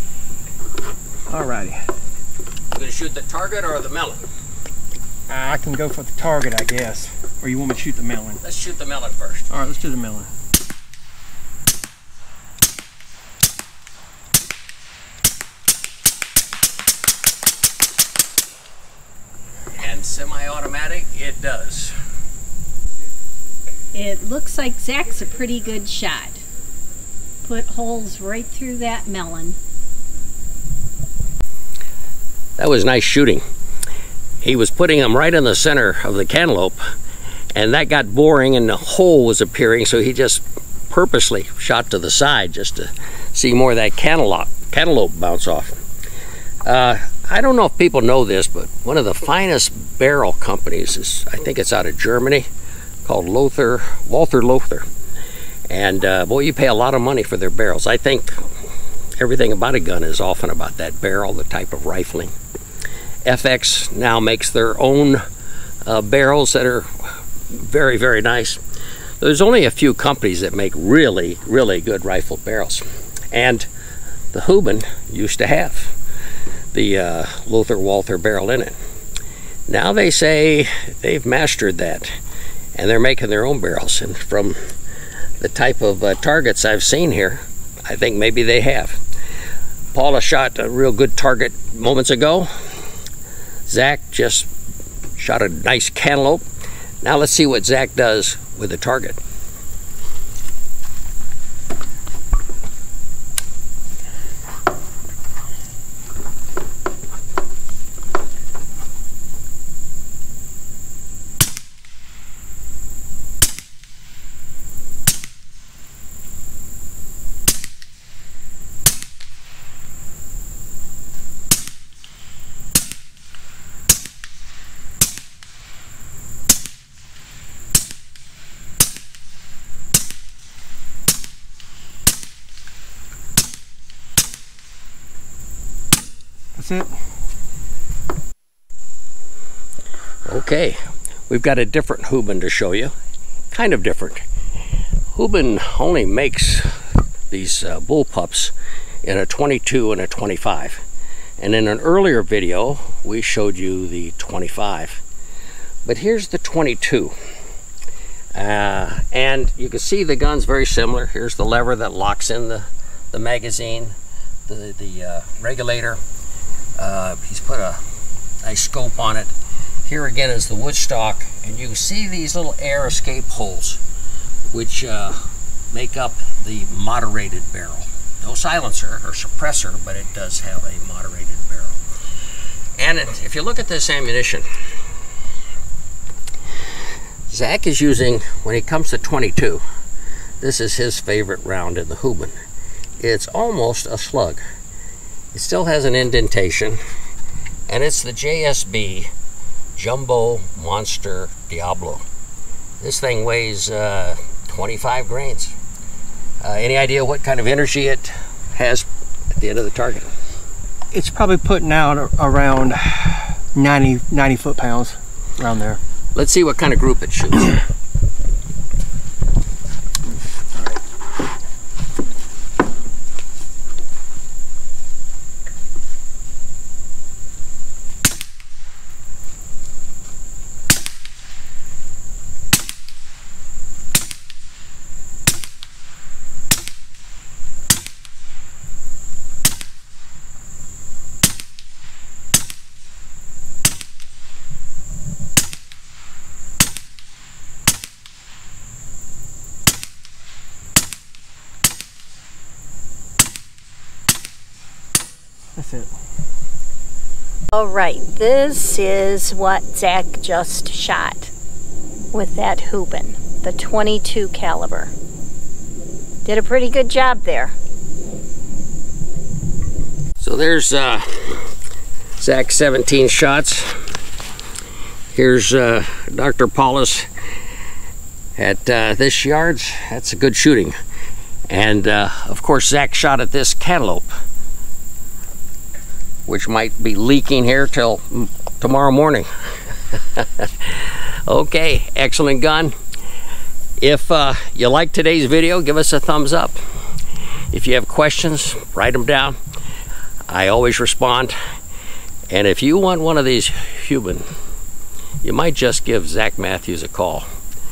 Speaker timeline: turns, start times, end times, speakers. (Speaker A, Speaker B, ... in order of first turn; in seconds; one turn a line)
Speaker A: 1.3-1.8
Speaker B: 2.7-4.2
Speaker A: 5.3-8.4
Speaker B: 8.4-9.5
Speaker A: 9.5-10.3
Speaker B: 19.8-21.9
Speaker C: 23.9-26.4
Speaker C: 27.4-29.6
Speaker B: 32.6-33.4
Speaker B: 34.4-36.8
Speaker B: 37.5-45.8
Speaker B: 46.6-52.5
Speaker B: 53.0-54.9
Speaker B: 55.7-58.4
Speaker B: 59.2-62.3
Speaker B: 63.2-65.2
Speaker B: 65.9-66.9
Speaker B: 67.5-68.6
Speaker B: 69.2-73.7
Speaker B: 74.3-76.0
Speaker B: 76.7-78.8
Speaker B: 79.7-82.1
Speaker B: 82.8-84.6
Speaker B: 85.4-89.0
Speaker B: 89.9-92.5
Speaker B: 93.7-94.5
Speaker B: 95.2-96.4
Speaker B: 97.0-99.2
Speaker A: 136.6-136.9
Speaker B: 140.3-142.9
Speaker B: 143.5-144.2
Speaker B: 145.1-146.7
Speaker B: 147.3-148.5
Speaker B: 149.0-150.8
Speaker B: 151.4-155.0
Speaker B: 155.8-157.1
Speaker B: 158.3-163.9
Speaker B: 164.5-166.0
Speaker B: 166.8-167.8
Speaker B: 168.4-169.3
Speaker B: 169.9-173.8
Speaker B: 174.5-175.2
Speaker B: 175.7-181.8
Speaker B: 182.8-184.5
Speaker B: 187.3-189.6
Speaker B: 190.4-192.3
Speaker B: 193.0-194.4
Speaker B: 195.3-196.8
Speaker B: 197.7-199.1
Speaker B: 199.8-202.0
Speaker B: 202.8-205.5
Speaker B: 206.4-210.1
Speaker A: 210.9-215.8
Speaker B: 216.2-217.6
Speaker A: 255.6-255.9
Speaker C: 257.5-261.3
Speaker C: 262.1-264.9
Speaker C: 266.2-267.5
Speaker B: 270.2-271.5
Speaker B: 272.2-273.8
Speaker B: 275.1-277.1
Speaker B: 278.4-280.8
Speaker B: 281.5-284.1
Speaker B: 286.3-289.3
Speaker B: 289.9-292.8
Speaker B: 293.8-296.6
Speaker B: 297.5-299.4
Speaker B: 300.3-301.4
Speaker B: 302.3-304.2
Speaker B: 305.2-307.3